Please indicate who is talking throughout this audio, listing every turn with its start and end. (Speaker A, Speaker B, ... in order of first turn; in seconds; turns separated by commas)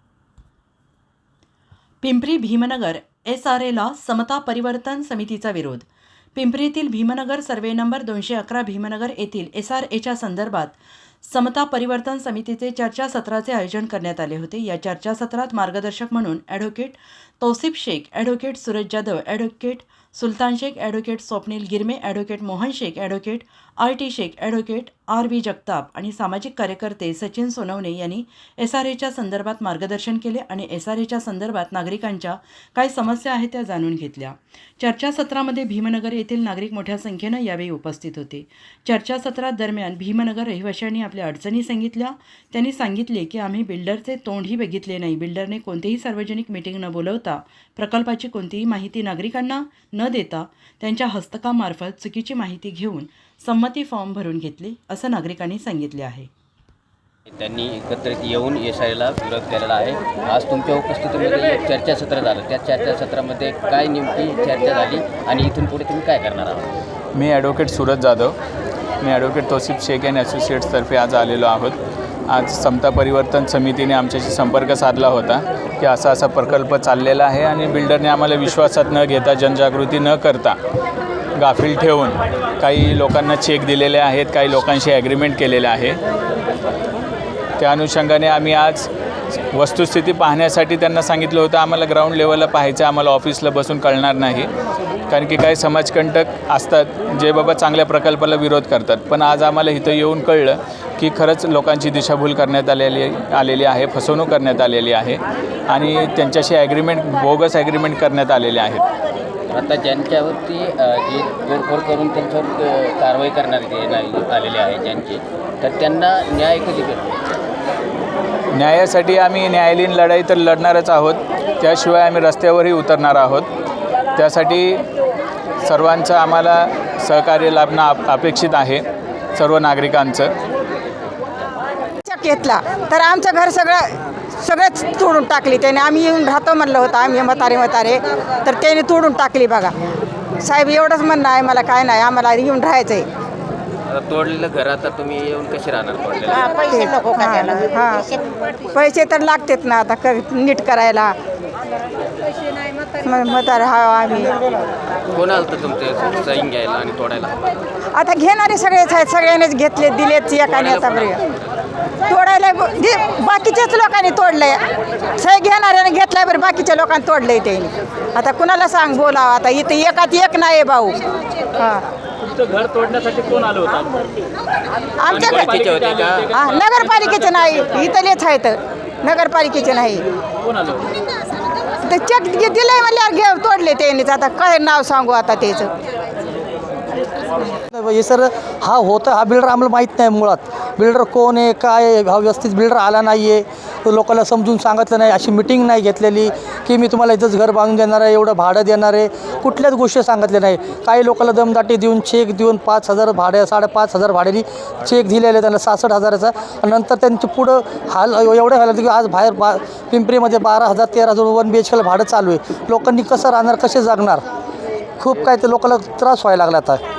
Speaker A: 2.0-56.3, Speaker B: 57.3-66.7, Speaker C: 67.2-68.4, Speaker C: 69.0-71.8, Speaker C: 72.3-80.6, Speaker C: 81.4-86.0, Speaker C: 87.6-88.9, Speaker C: 89.5-94.5, Speaker C: 95.1-108.8, Speaker B: 109.5-117.3, Speaker C: 118.5-123.5, Speaker C: 124.2-124.8, Speaker C: 125.7-128.8, Speaker C: 129.4-130.3, Speaker D: 132.1-139.7, Speaker D: 140.4-143.1, Speaker B: 143.9-146.7, Speaker D: 146.6-148.0, Speaker D: 148.7-151.2, Speaker D: 153.1-154.4, Speaker B: 155.1-157.4, Speaker D: 157.9-161.2, Speaker B: 160.5-161.2, Speaker D: 162.1-171.0, Speaker D: 171.6-171.8, Speaker D: 175.0-175.6, Speaker B: 175.2-176.3, Speaker D: 176.3-180.1, Speaker D: 181.8-185.7, Speaker E: 187.6-214.2, Speaker E: 215.0-216.8